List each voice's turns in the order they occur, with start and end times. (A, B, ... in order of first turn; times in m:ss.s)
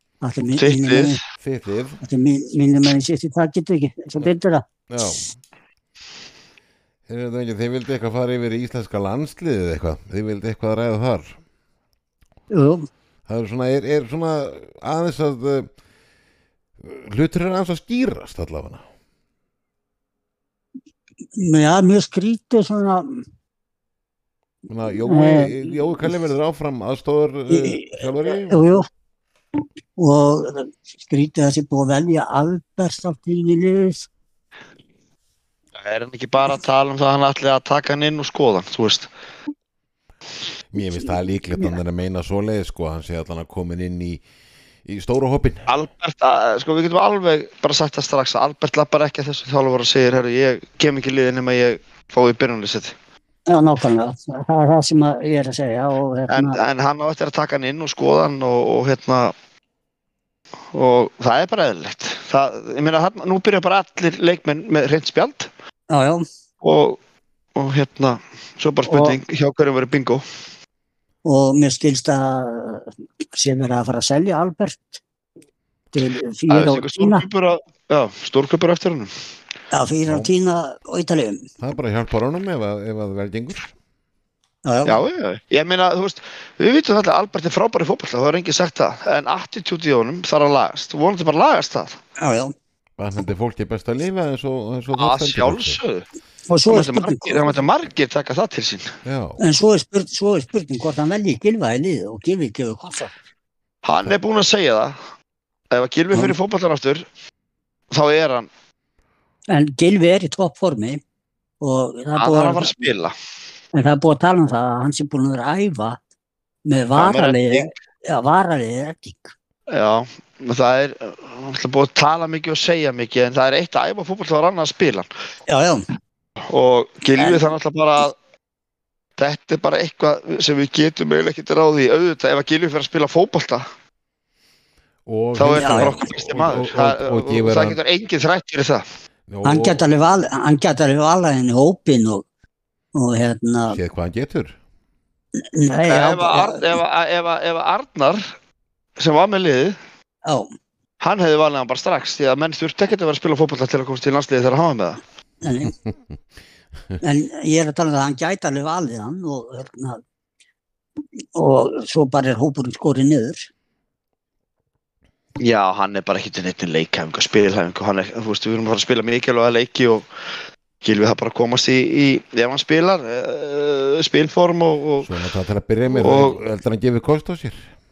0:00.2-0:01.2 A
0:00.6-0:01.2 B
0:01.4-0:02.0 C
0:02.0-0:05.2 A
0:04.9-0:05.3 C
0:07.1-0:11.4 C
0:12.5-0:12.9 A
0:13.3-0:15.7 C
0:16.8-0:18.8 C
0:21.4-0:23.2 A
0:24.7-0:28.8 C
0:25.1-0:25.8 A
0:27.5-0:28.9 A
0:30.0-0:34.1 A
0:35.8-0:39.1 B
0:40.7-0:44.2 C
0:44.8-0:45.7 C
0:45.7-0:52.9 B
0:53.5-0:56.6 A
0:56.3-0:59.3 B
1:00.7-1:05.5 B
1:05.9-1:06.2 A
1:06.6-1:07.0 B
1:07.5-1:10.2 B
1:08.8-1:09.2 A
1:11.2-1:15.0 A
1:15.9-1:17.2 A
1:16.5-1:19.1 B
1:19.7-1:21.5 A
1:21.6-1:23.7 C
1:24.6-1:25.0 A
1:24.8-1:32.0 B
1:32.2-1:32.5 A
1:33.0-1:35.8 C
1:34.9-1:36.0 B
1:36.5-1:37.4 A
1:36.7-1:38.9 B
1:39.0-1:39.4 C
1:39.4-1:43.1 A
1:43.8-1:45.0 B
1:45.7-1:47.0 B
1:47.9-1:48.5 B
1:49.5-1:51.0 A
1:51.6-1:52.9 A
1:52.2-1:53.1 B
1:53.7-1:56.0 A
1:56.6-1:59.3 A
1:57.0-1:57.7 B
1:59.7-2:05.1 B
2:05.5-2:05.8 A
2:06.5-2:08.2 B
2:07.2-2:07.4 A
2:09.2-2:13.6 B
2:15.0-2:17.8 C
2:15.4-2:18.8 B
2:15.6-2:16.0 A
2:19.3-2:19.8 C
2:19.4-2:22.2 A
2:22.9-2:23.8 A
2:23.7-2:24.5 C
2:25.4-2:26.7 A
2:25.9-2:28.3 B
2:29.0-2:29.8 B
2:30.2-2:30.5 A
2:31.0-2:35.0 B
2:35.4-2:35.7 A
2:35.6-2:35.9 C
2:37.0-2:40.0 A
2:41.3-2:43.5 A
2:45.4-2:50.1 B
2:50.8-2:55.1 B
2:55.0-2:57.7 C
2:56.0-2:56.4 B